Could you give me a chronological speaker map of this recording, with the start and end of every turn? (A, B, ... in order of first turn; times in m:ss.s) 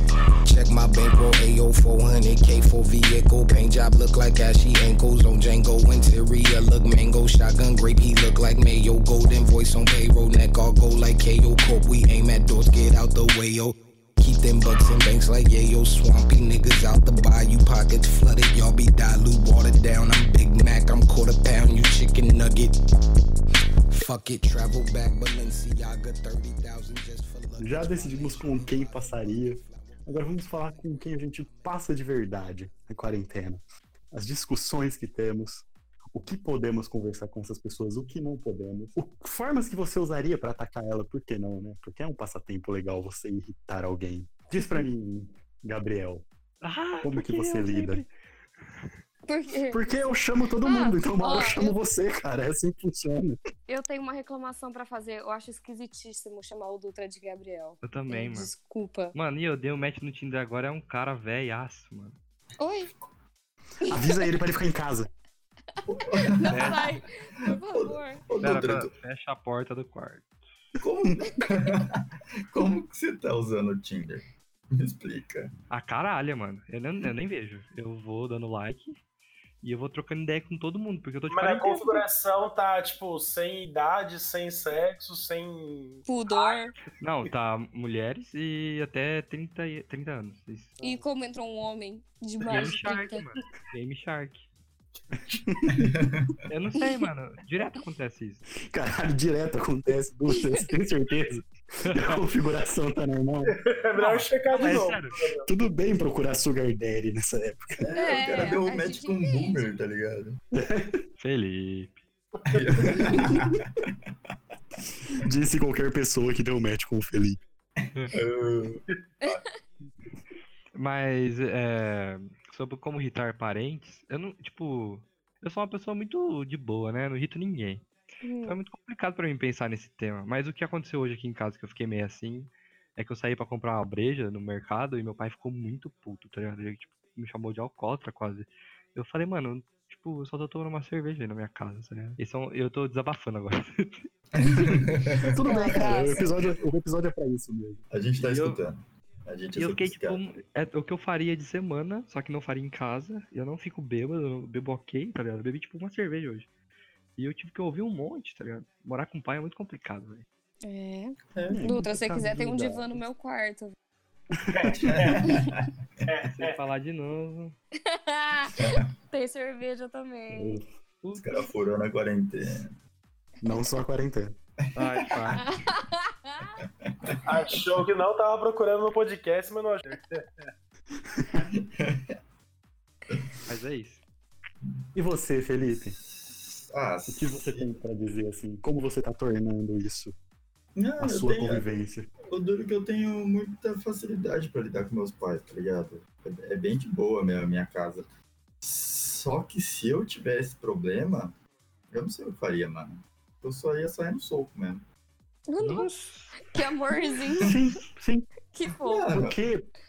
0:00.4-0:22.8 A
0:23.9-0:31.7 A
0:27.6-0:46.2 B
0:46.6-0:48.1 C
0:47.0-0:48.0 B
0:49.3-0:49.9 D
0:49.7-0:53.4 B
0:50.6-0:51.8 D
0:53.7-0:59.2 D
0:57.8-0:58.5 C
0:59.1-1:02.2 C
1:02.6-1:02.9 D
1:03.8-1:04.3 D
1:03.9-1:05.1 B
1:05.9-1:08.9 E
1:06.3-1:08.2 D
1:06.5-1:06.9 C
1:08.4-1:10.3 C
1:10.8-1:15.5 E
1:15.7-1:19.0 C
1:19.6-1:22.0 C
1:21.3-1:26.6 F
1:26.1-1:26.8 D
1:27.0-1:30.8 C
1:30.8-1:33.2 D
1:32.5-1:34.5 C
1:35.3-1:35.9 B
1:35.7-1:36.4 E
1:36.5-1:38.4 C
1:38.6-1:43.6 B
1:40.4-1:40.6 D
1:41.8-1:42.2 C
1:43.5-1:45.5 F
1:44.0-1:45.2 C
1:45.5-1:47.9 B
1:47.8-1:50.4 E
1:48.0-1:49.7 D
1:50.5-1:51.0 B
1:51.2-1:52.0 C
1:52.5-1:53.9 E
1:53.2-1:53.4 B
1:55.1-1:57.4 B
1:58.1-1:59.4 E
2:00.8-2:07.8 C
2:08.2-2:08.6 D
2:08.4-2:24.1 C
2:24.4-2:26.3 E
2:25.2-2:27.8 B
2:25.4-2:26.3 D
2:27.9-2:30.2 E
2:28.2-2:28.6 C
2:29.6-2:36.5 C
2:37.2-2:40.2 C
2:40.6-2:43.8 D
2:41.4-2:41.8 E
2:41.5-2:43.0 B
2:44.4-2:45.0 B
2:44.5-2:45.3 F
2:44.8-2:45.7 E
2:46.1-2:46.6 F
2:46.2-2:47.6 C
2:47.8-2:50.6 D
2:48.6-2:48.9 E
2:50.3-2:50.7 B
2:51.2-2:52.8 E
2:53.4-2:54.4 B
2:54.8-2:55.4 C
2:54.8-2:55.4 E
2:55.4-2:56.6 D
2:56.9-2:57.8 E
2:57.3-3:00.5 F
3:01.1-3:01.5 B
3:01.4-3:02.2 E
3:03.1-3:03.4 E
3:03.5-3:04.0 C
3:05.0-3:06.0 B
3:05.8-3:07.7 E
3:07.1-3:10.2 B
3:10.8-3:11.7 E
3:11.0-3:12.1 B
3:12.3-3:18.1 E
3:18.6-3:21.4 E
3:21.9-3:24.8 E
3:25.5-3:27.6 D
3:25.6-3:26.4 C
3:27.4-3:28.3 B
3:28.5-3:29.2 D
3:28.8-3:29.4 E
3:29.1-3:29.7 B